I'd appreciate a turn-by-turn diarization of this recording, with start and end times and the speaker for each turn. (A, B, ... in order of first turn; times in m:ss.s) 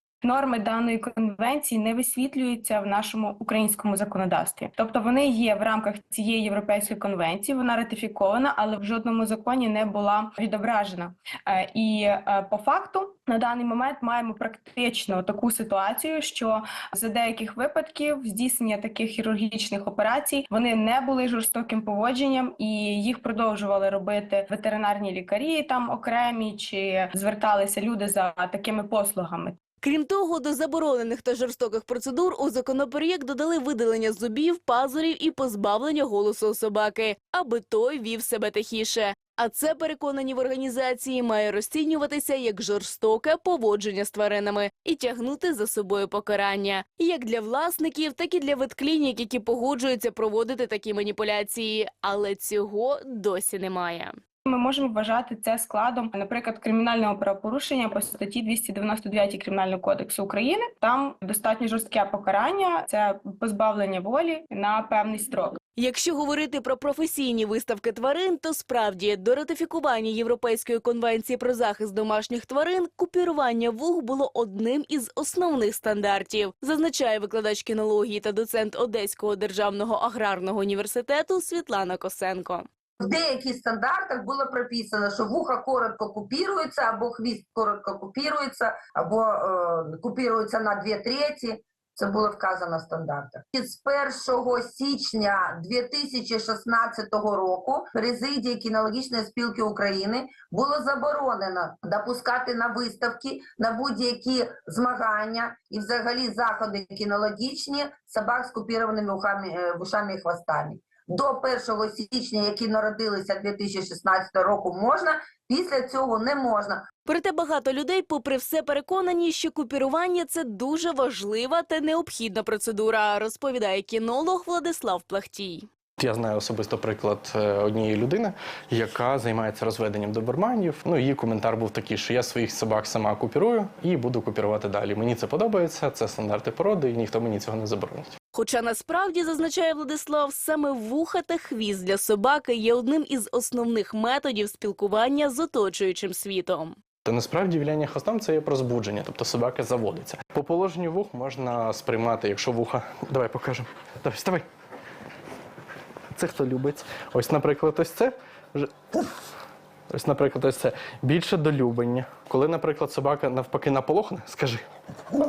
0:00.2-0:29.6 A
0:29.8-0:54.2 B
0:54.4-1:05.6 A
1:05.8-1:22.7 B
1:23.0-1:56.8 C
1:57.1-2:05.7 B
2:06.0-2:18.2 D
2:18.3-2:26.8 B
2:27.1-2:34.4 D
2:36.2-2:38.7 D
2:39.9-2:44.6 D